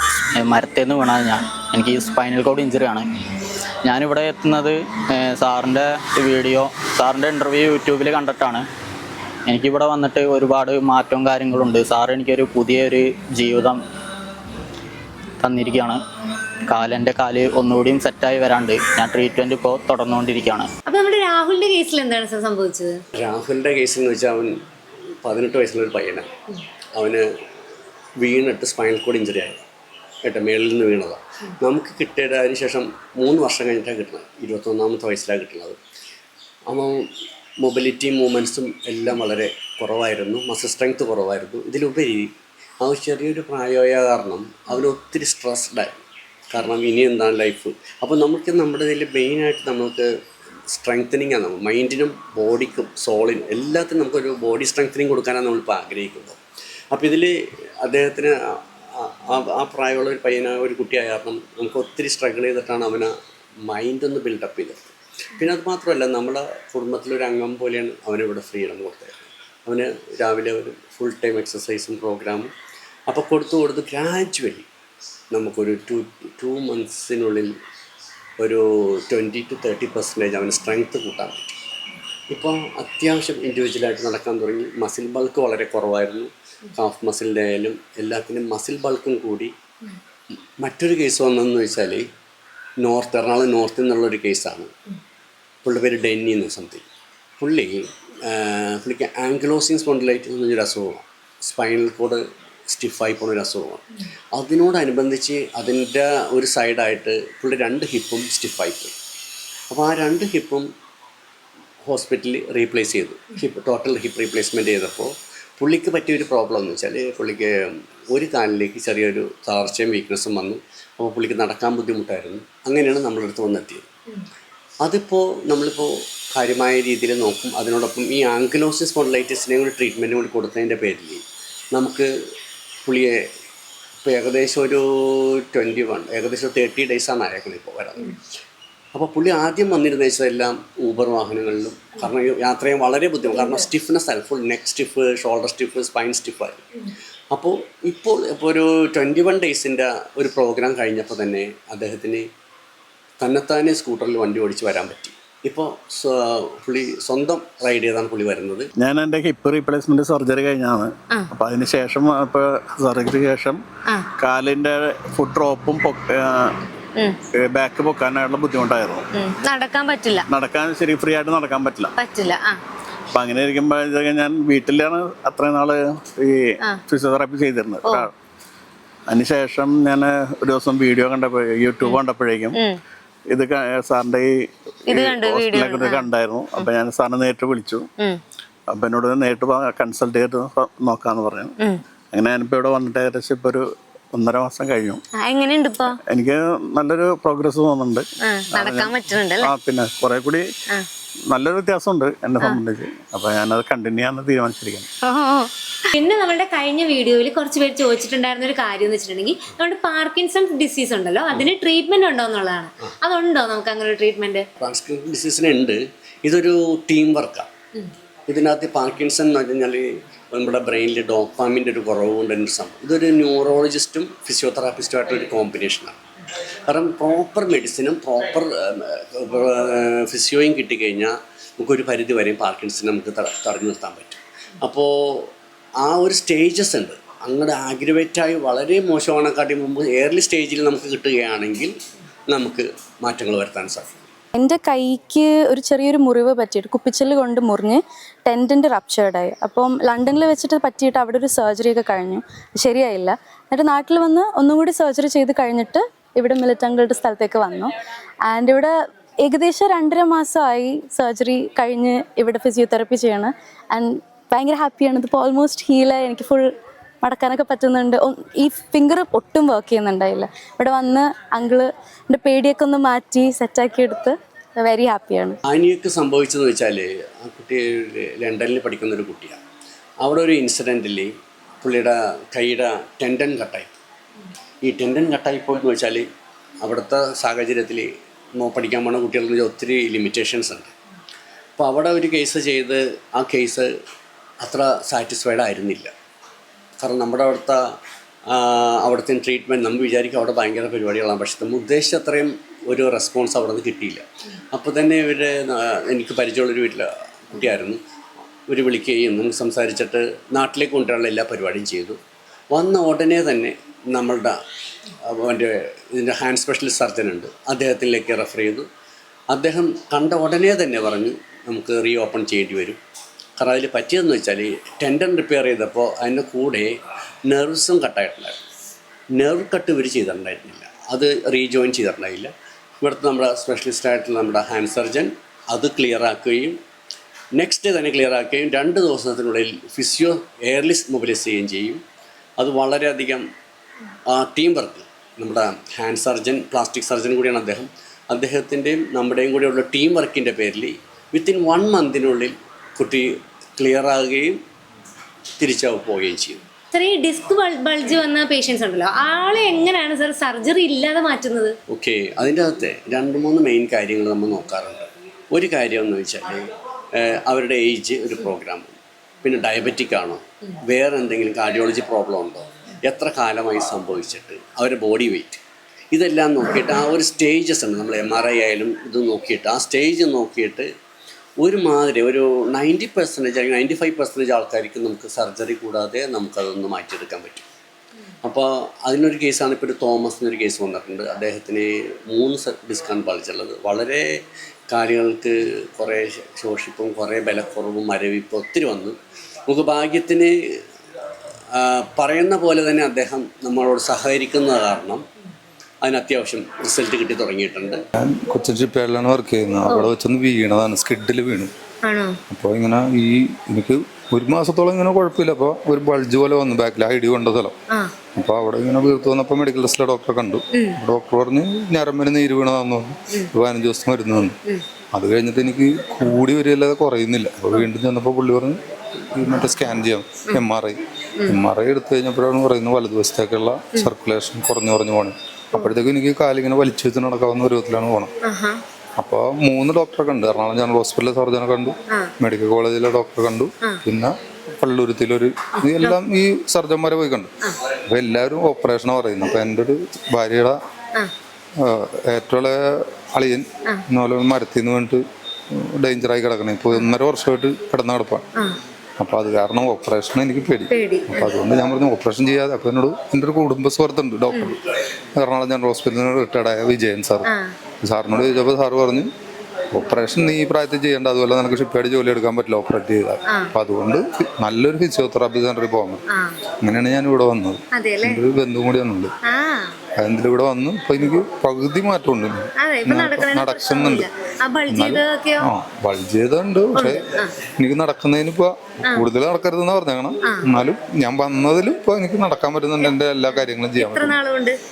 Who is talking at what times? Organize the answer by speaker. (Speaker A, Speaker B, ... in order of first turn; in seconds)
Speaker A: 0.3-3.0, 3.8-8.6, 9.5-13.8, 15.4-16.0, 16.7-20.7
Speaker B: 20.9-23.0, 143.3-143.6, 169.1-170.2, 171.9-172.6, 184.9-186.0, 195.2-196.0, 198.2-199.5, 205.0-214.4, 356.7-361.5, 411.8-412.2, 420.5-420.8, 438.2-438.6, 445.6-446.0, 460.7-461.4, 467.2-467.5, 476.1-476.4, 477.7-478.2, 479.2-479.7, 482.6-485.5, 486.7-487.3, 493.7-494.6
Speaker C: 23.1-24.6, 25.2-26.3, 26.9-27.3, 28.2-29.6, 30.2-35.8, 36.7-37.0, 37.6-50.1, 50.7-56.4, 56.9-58.4, 59.0-63.1, 63.7-72.5, 73.1-74.7, 75.3-77.5, 78.4-81.5, 82.3-89.5, 90.6-92.0, 92.8-94.7, 95.6-96.8, 97.4-108.9, 109.7-110.7, 111.8-117.5, 118.1-123.9, 124.8-131.2, 131.7-132.1, 132.8-133.2, 134.0-138.1, 138.9-146.6, 147.3-152.2, 153.2-158.7, 214.6-217.5, 218.3-226.0, 226.7-241.7, 242.3-244.1, 275.4-279.4, 280.0-281.1, 281.6-283.7, 284.6-286.1, 286.6-290.7, 291.6-293.7, 294.4-295.9, 296.8-297.6, 298.3-307.8, 308.5-312.0, 312.5-314.3, 315.1-318.6, 319.3-322.8, 323.4-326.7, 327.3-328.4, 329.1-336.6, 337.4-341.8, 342.4-343.2, 344.1-354.4, 355.4-356.4, 361.7-368.7, 369.2-380.7, 381.4-387.4, 388.2-394.1, 394.7-399.0, 399.5-400.3, 401.5-405.0, 405.8-407.8
Speaker D: 158.8-163.6, 164.2-166.6, 167.3-169.1, 170.3-171.9, 173.1-178.1, 179.1-182.6, 183.3-184.3, 184.9-187.8, 188.7-191.5, 192.1-195.0, 196.1-200.4, 201.3-204.9
Speaker E: 244.3-257.7, 258.2-266.5, 267.0-275.4
Speaker F: 408.0-411.5, 412.3-417.5, 418.1-424.4, 424.9-428.6, 429.1-438.1, 439.0-447.3, 447.9-450.6, 451.6-458.2, 459.0-464.6, 465.2-467.3, 467.8-469.1, 469.7-476.0, 476.6-479.1, 480.0-484.1, 484.7-487.1, 487.6-494.2